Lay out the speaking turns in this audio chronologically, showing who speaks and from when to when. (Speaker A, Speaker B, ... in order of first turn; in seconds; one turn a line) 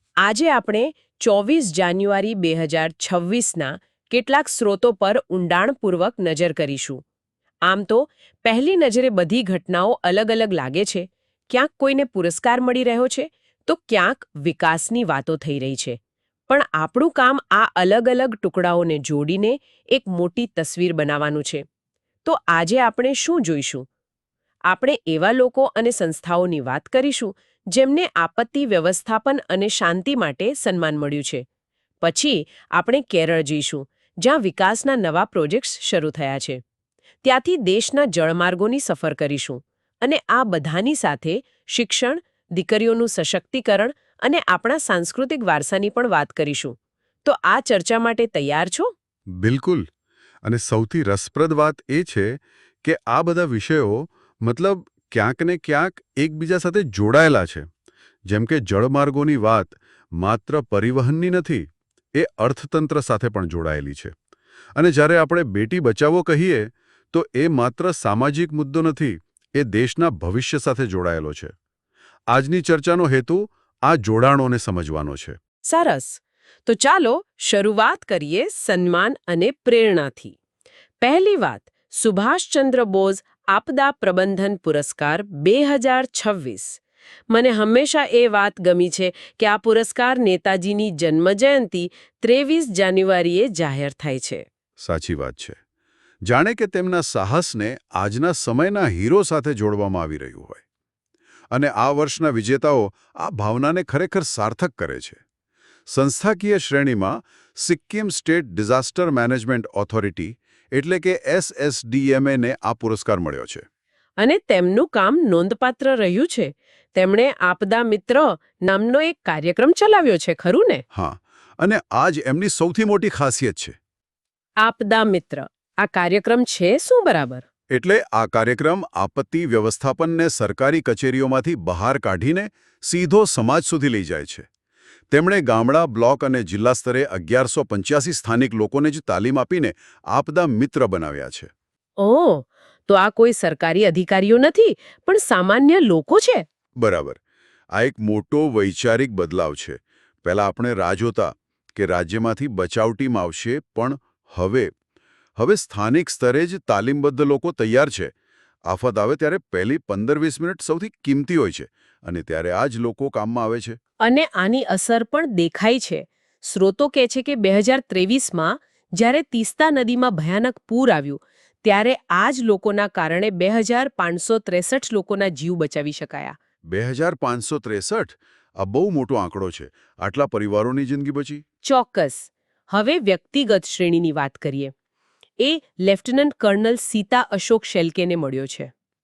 Speaker A: 0.2-7.0
Speaker A: 7.6-16.0
Speaker A: 16.5-21.6
Speaker A: 22.2-23.9
Speaker A: 24.7-31.4
Speaker A: 32.0-36.6
Speaker A: 37.2-48.9
Speaker B: 49.4-49.9
Speaker B: 50.4-57.7
Speaker B: 58.3-64.1
Speaker B: 64.8-71.5
Speaker B: 72.3-75.4
Speaker A: 75.7-80.3
Speaker A: 81.0-94.4
Speaker B: 94.8-95.6
Speaker B: 96.2-100.6
Speaker B: 101.5-105.2
Speaker B: 105.9-113.6
Speaker A: 114.2-120.8
Speaker B: 120.9-123.8
Speaker A: 124.6-127.4
Speaker B: 127.7-134.4
Speaker B: 135.1-141.5
Speaker A: 142.0-146.4
Speaker B: 146.8-147.2
Speaker B: 147.7-154.7
Speaker B: 155.4-158.1
Speaker B: 158.7-163.8
Speaker A: 164.0-176.3
Speaker B: 176.7-181.4
Speaker A: 181.6-184.7
Speaker A: 185.4-188.7